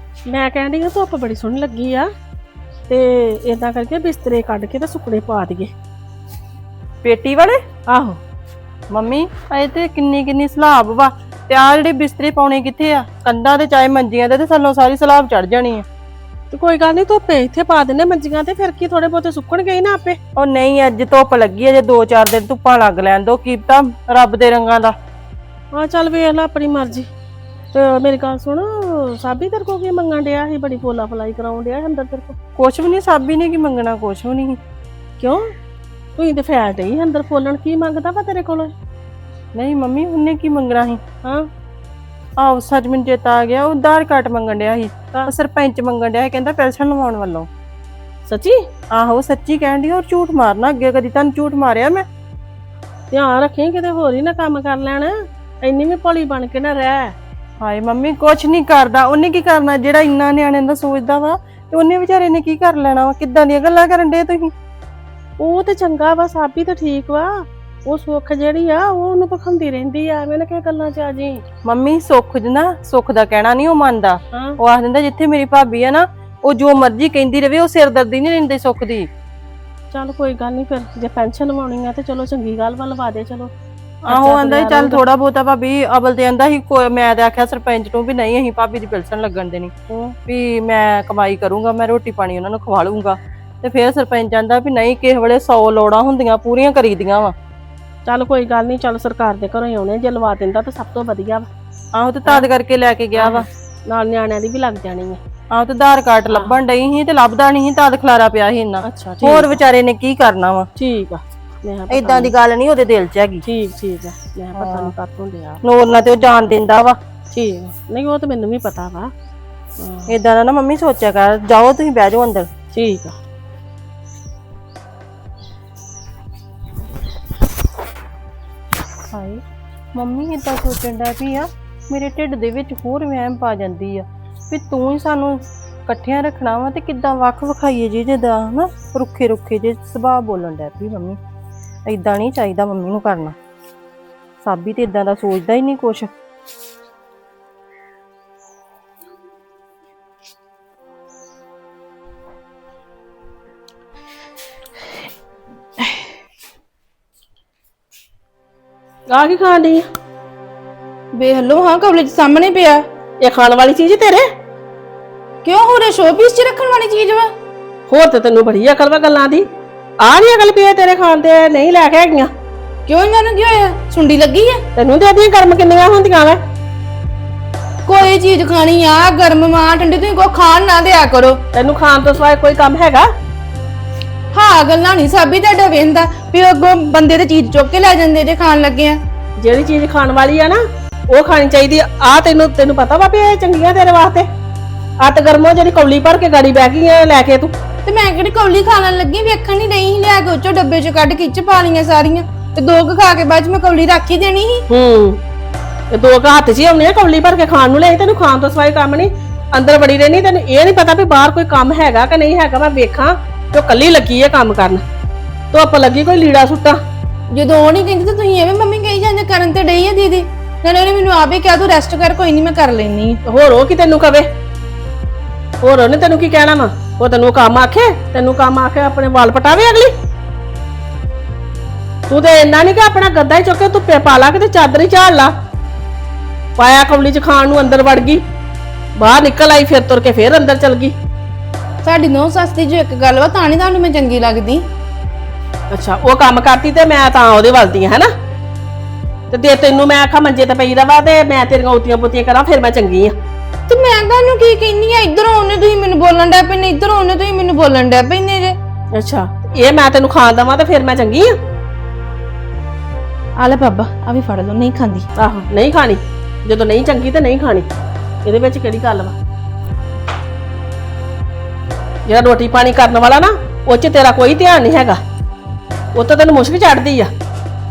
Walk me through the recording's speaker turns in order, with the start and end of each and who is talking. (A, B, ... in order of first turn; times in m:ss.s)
0:00.3-0:02.1 A
0:02.9-0:05.7 A
0:07.0-0:07.6 B
0:07.9-0:08.2 A
0:08.9-0:15.8 B
0:16.5-0:20.2 A
0:20.4-0:24.9 B
0:25.7-0:27.1 A
0:27.7-0:32.4 A
0:32.6-0:34.6 B
0:35.2-0:35.5 A
0:36.2-0:38.7 A
0:39.5-0:41.0 B
0:42.4-0:47.5 B
0:48.3-0:48.6 A
0:48.9-0:52.0 B
0:53.1-0:57.1 A
0:57.6-1:04.5 B
1:05.4-1:11.4 A
1:11.6-1:19.1 B
1:14.3-1:14.6 A
1:19.9-1:23.5 A
1:24.0-1:29.7 B
1:24.1-1:25.0 A
1:30.2-1:37.3 B
1:38.0-1:41.5 A
1:41.9-1:43.5 B
1:43.2-1:45.2 A
1:45.5-1:50.7 B
1:46.3-1:46.5 A
1:48.8-1:49.6 A
1:50.8-1:52.3 A
1:51.9-1:53.4 B
1:53.4-1:55.6 A
1:54.6-1:54.9 B
1:55.6-1:57.0 B
1:57.3-1:59.1 A
1:59.8-2:00.1 A
2:00.1-2:02.5 B
2:02.7-2:03.2 A
2:09.1-2:09.4 B
2:09.9-2:21.2 B
2:21.8-2:23.4 B
2:24.4-2:26.1 B
2:39.1-2:39.8 A
2:41.2-2:42.8 C
2:43.2-2:44.2 A
2:45.4-2:47.3 C
2:47.9-2:49.4 A
2:50.0-2:52.3 A
2:52.9-2:54.6 C
2:54.8-2:56.4 A
2:57.8-3:01.4 C
3:01.5-3:03.1 A
3:04.3-3:09.0 C
3:09.4-3:14.3 A
3:15.0-3:17.5 A
3:17.8-3:24.6 C
3:24.7-3:25.2 A
3:25.9-3:34.8 A
3:35.5-3:36.8 A
3:37.3-3:43.2 C
3:43.3-3:44.3 A
3:45.6-3:49.9 A
3:52.1-3:55.3 A
3:56.6-3:58.2 A
3:59.0-4:00.9 A
4:01.8-4:04.6 C
4:05.7-4:08.1 A
4:09.3-4:13.1 A
4:13.7-4:18.6 C
4:18.9-4:21.3 A
4:23.4-4:25.0 C
4:25.2-4:27.7 A
4:28.2-4:29.1 A
4:32.0-4:35.0 A
4:35.9-4:37.1 A